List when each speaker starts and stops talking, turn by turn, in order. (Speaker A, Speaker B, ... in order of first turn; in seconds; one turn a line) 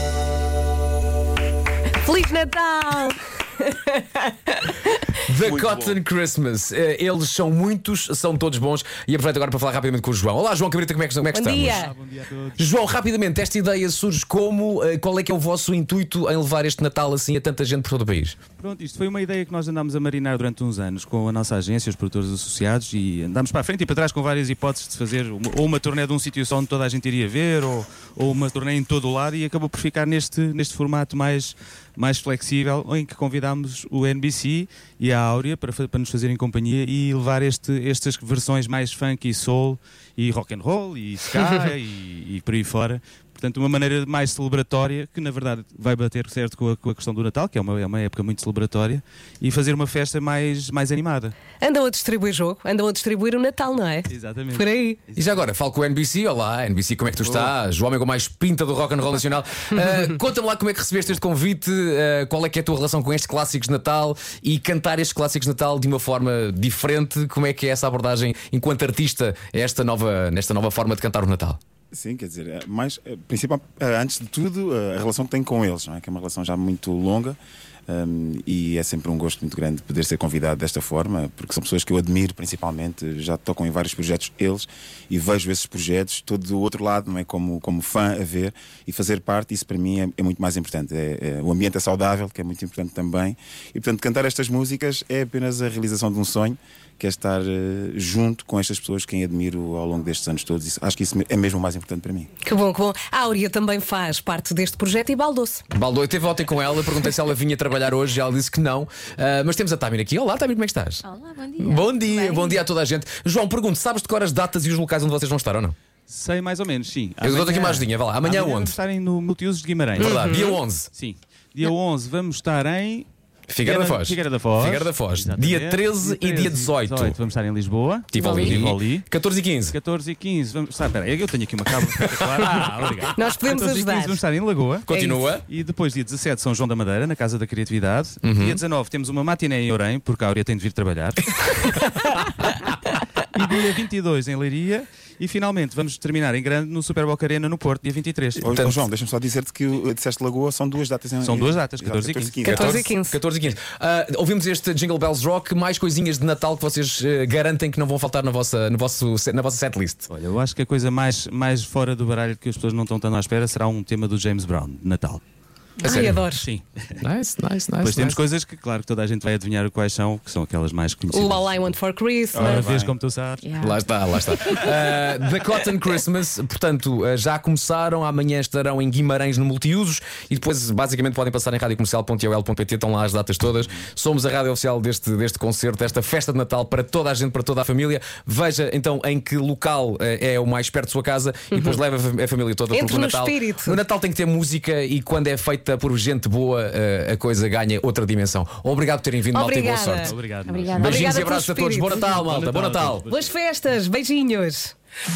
Speaker A: 2.0-5.0
Speaker B: 5.2-11.9
Speaker C: 5.5-6.0
Speaker A: 11.3-11.9
Speaker D: 11.6-12.7
Speaker B: 12.6-18.4
Speaker D: 18.6-51.4
Speaker A: 51.6-55.0
Speaker D: 54.1-55.4
Speaker B: 55.2-71.6
Speaker C: 71.9-77.4
Speaker C: 77.9-102.3
Speaker A: 102.4-105.6
Speaker B: 105.7-111.1
Speaker E: 111.1-112.5
Speaker B: 111.6-115.8
Speaker D: 116.1-123.1
Speaker B: 117.2-118.8
Speaker B: 120.0-120.9
Speaker A: 120.0-120.6
Speaker B: 123.5-127.2
Speaker D: 123.6-129.1
Speaker B: 128.1-129.8
Speaker A: 128.2-128.6
Speaker D: 129.7-141.8
Speaker B: 132.1-132.4
Speaker A: 133.2-134.2
Speaker B: 134.9-135.4
Speaker A: 134.9-135.2
Speaker B: 138.2-138.6
Speaker D: 143.3-148.5
Speaker C: 148.4-152.8
Speaker B: 148.5-148.8
Speaker D: 151.2-152.4
Speaker A: 152.4-153.2
Speaker B: 152.5-160.1
Speaker D: 160.1-165.2
Speaker B: 165.8-166.2
Speaker A: 165.8-166.5
Speaker D: 166.2-167.0
Speaker B: 167.0-168.2
Speaker D: 167.8-171.7
Speaker A: 171.1-172.7
Speaker C: 172.3-172.9
Speaker D: 172.3-173.6
Speaker E: 173.4-173.8
Speaker B: 173.6-200.1
Speaker A: 192.7-193.8
Speaker A: 199.3-200.1
Speaker D: 200.0-201.0
Speaker E: 200.5-201.0
Speaker B: 200.7-203.1
Speaker A: 200.8-202.0
Speaker D: 202.1-203.3
Speaker A: 203.1-204.8